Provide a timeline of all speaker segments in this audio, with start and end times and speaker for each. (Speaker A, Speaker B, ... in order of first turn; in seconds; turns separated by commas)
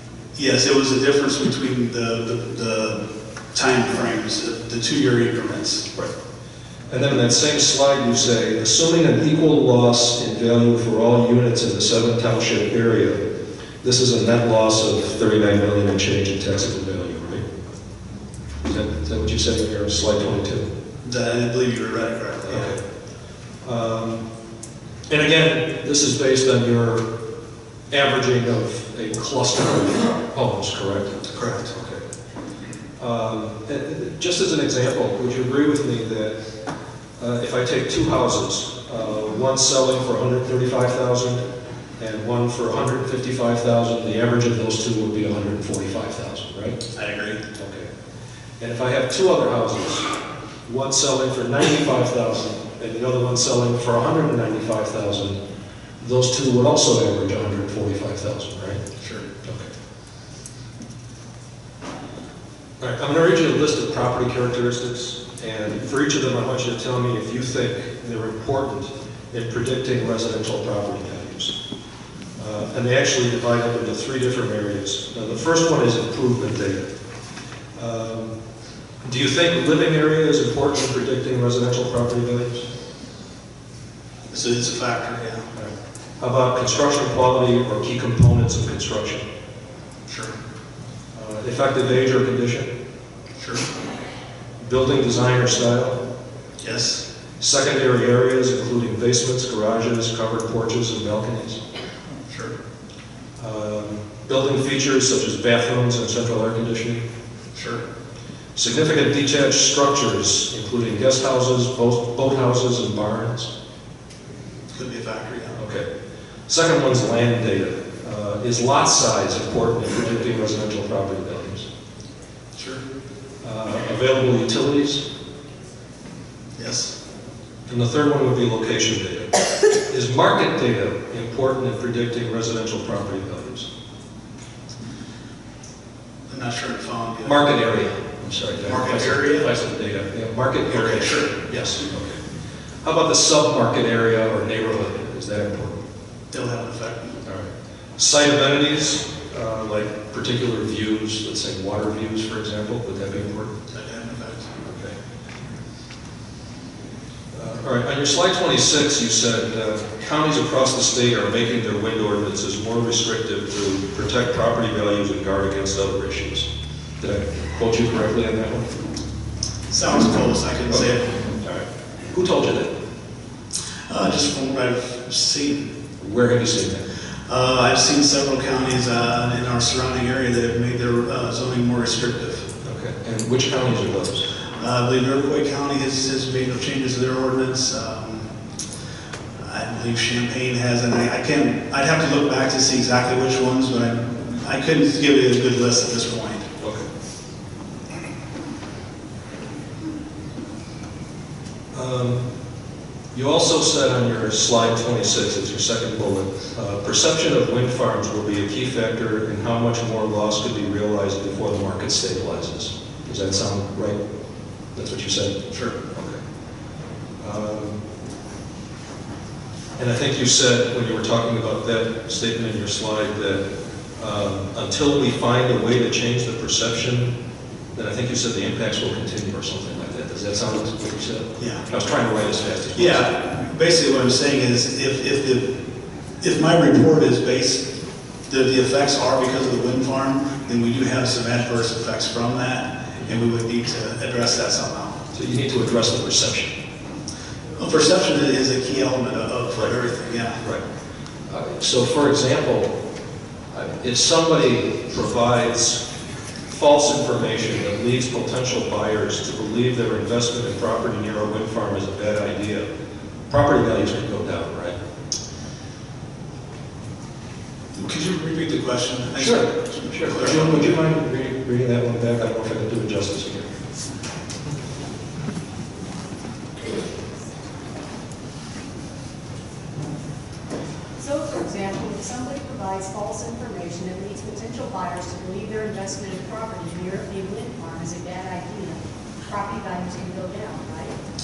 Speaker A: 0.3-3.0, Speaker A: 3.5-5.9, Speaker B: 6.9-13.2, Speaker B: 13.8-17.4, Speaker B: 18.6-20.7, Speaker A: 21.0-22.7, Speaker B: 22.5-22.8, Speaker B: 23.6-24.2, Speaker B: 25.1-27.0, Speaker B: 27.9-32.0, Speaker A: 31.3-31.7, Speaker B: 33.0-36.4, Speaker B: 37.2-41.4, Speaker B: 42.0-46.8, Speaker A: 46.9-47.4, Speaker B: 47.5-47.9, Speaker B: 48.6-50.1, Speaker B: 50.6-55.4, Speaker B: 56.0-58.8, Speaker A: 59.0-59.3, Speaker B: 59.4-59.7, Speaker B: 62.8-71.5, Speaker B: 72.4-76.9, Speaker B: 77.8-78.3, Speaker B: 79.0-82.7, Speaker A: 84.3-85.5, Speaker B: 85.5-89.2, Speaker A: 90.1-90.3, Speaker B: 91.1-92.7, Speaker A: 93.3-93.7, Speaker B: 94.6-96.0, Speaker A: 96.6-97.0, Speaker B: 97.4-101.6, Speaker A: 102.3-102.5, Speaker B: 103.4-107.0, Speaker A: 107.5-107.8, Speaker B: 108.5-113.5, Speaker A: 114.7-115.6, Speaker B: 115.5-115.9, Speaker B: 116.5-121.7, Speaker A: 122.5-122.8, Speaker B: 123.4-125.0, Speaker A: 126.6-126.9, Speaker B: 127.7-133.7, Speaker A: 136.3-137.4, Speaker B: 137.2-142.2, Speaker A: 138.6-139.5, Speaker A: 140.7-141.3, Speaker B: 142.8-145.8, Speaker A: 146.3-147.2, Speaker B: 147.2-153.5, Speaker A: 153.7-154.5, Speaker B: 154.6-154.9, Speaker B: 157.3-166.5, Speaker B: 167.0-168.7, Speaker A: 169.7-171.1, Speaker B: 171.4-172.7, Speaker A: 173.9-175.7, Speaker B: 176.0-176.8, Speaker A: 177.3-182.5, Speaker B: 182.6-184.2, Speaker A: 184.6-188.3, Speaker A: 189.4-196.5, Speaker B: 196.6-196.9, Speaker B: 201.7-202.2, Speaker B: 203.1-214.0, Speaker B: 214.7-216.2, Speaker B: 217.2-217.8, Speaker B: 219.8-223.4, Speaker B: 224.0-227.1, Speaker B: 227.7-233.1, Speaker A: 231.4-231.6, Speaker A: 232.8-235.6, Speaker A: 236.2-237.7, Speaker A: 238.3-245.0, Speaker B: 245.1-246.5, Speaker A: 247.6-250.4, Speaker B: 251.3-252.7, Speaker B: 253.5-255.8, Speaker B: 256.5-262.7, Speaker B: 263.3-264.8, Speaker A: 267.7-270.7, Speaker B: 269.2-273.5, Speaker C: 281.0-291.0